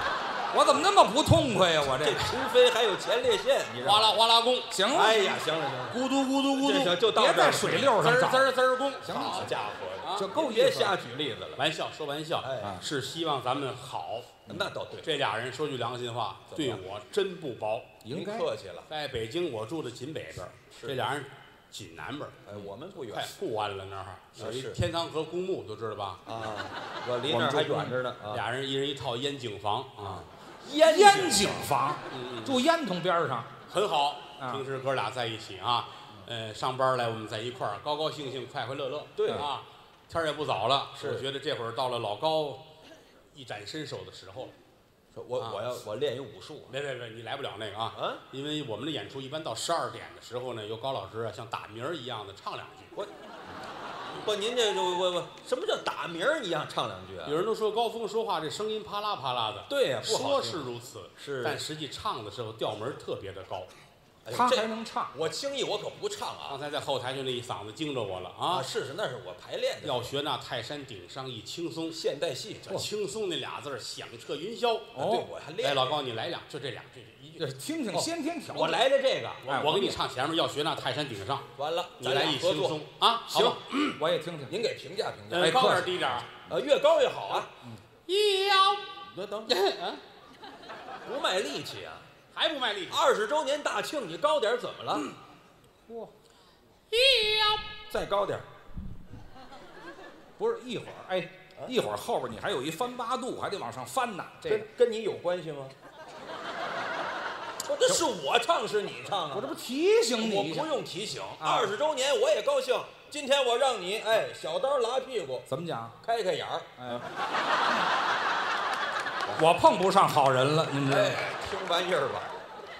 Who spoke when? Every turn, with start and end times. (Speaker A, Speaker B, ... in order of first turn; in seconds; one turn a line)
Speaker A: 0.5-2.3
Speaker B: 1.8-4.2
Speaker C: 3.8-4.8
Speaker A: 4.7-5.4
Speaker B: 4.9-8.1
Speaker C: 5.9-7.0
Speaker A: 7.1-8.5
Speaker C: 7.9-10.3
Speaker A: 9.0-9.5
Speaker B: 9.1-11.6
Speaker A: 10.1-10.9
Speaker C: 11.6-14.4
Speaker B: 12.4-12.8
Speaker B: 14.5-15.1
Speaker C: 15.0-18.0
Speaker B: 16.5-16.8
Speaker A: 18.0-18.5
Speaker B: 18.1-18.9
Speaker C: 18.9-26.2
Speaker B: 22.5-23.3
Speaker B: 24.4-24.8
Speaker B: 26.2-28.4
Speaker A: 27.3-28.0
Speaker C: 28.3-30.3
Speaker B: 30.0-31.7
Speaker A: 30.8-33.5
Speaker C: 32.1-32.6
Speaker C: 33.7-42.6
Speaker A: 34.4-34.6
Speaker B: 39.2-39.5
Speaker B: 41.0-41.2
Speaker C: 43.3-44.5
Speaker B: 45.1-46.7
Speaker C: 45.4-45.6
Speaker C: 46.7-52.9
Speaker B: 47.9-48.2
Speaker B: 54.2-57.4
Speaker C: 57.2-63.7
Speaker B: 59.7-61.6
Speaker B: 64.2-66.6
Speaker A: 64.3-65.2
Speaker C: 66.5-68.7
Speaker B: 68.5-70.1
Speaker C: 69.8-72.0
Speaker B: 71.9-72.7
Speaker C: 72.7-75.1
Speaker A: 74.9-75.3
Speaker B: 75.0-76.0
Speaker C: 75.6-77.5
Speaker A: 77.4-78.8
Speaker B: 77.9-79.4
Speaker C: 79.4-84.0
Speaker A: 79.5-80.0
Speaker B: 81.6-83.6
Speaker A: 84.0-84.5
Speaker B: 84.5-85.7
Speaker C: 85.3-86.3
Speaker A: 85.3-86.2
Speaker B: 86.5-87.5
Speaker C: 88.1-88.9
Speaker B: 89.0-89.5
Speaker C: 89.5-90.0
Speaker B: 91.0-92.1
Speaker C: 92.3-93.0
Speaker B: 92.9-95.1
Speaker A: 95.9-96.1
Speaker C: 96.9-97.7
Speaker B: 97.9-98.5
Speaker A: 100.4-104.7
Speaker B: 104.5-105.7
Speaker B: 107.6-109.6
Speaker A: 109.3-110.7
Speaker B: 110.2-115.5
Speaker A: 111.4-111.7
Speaker A: 115.5-116.0
Speaker B: 116.0-117.0
Speaker A: 116.8-117.0
Speaker A: 119.3-121.2
Speaker B: 120.8-122.3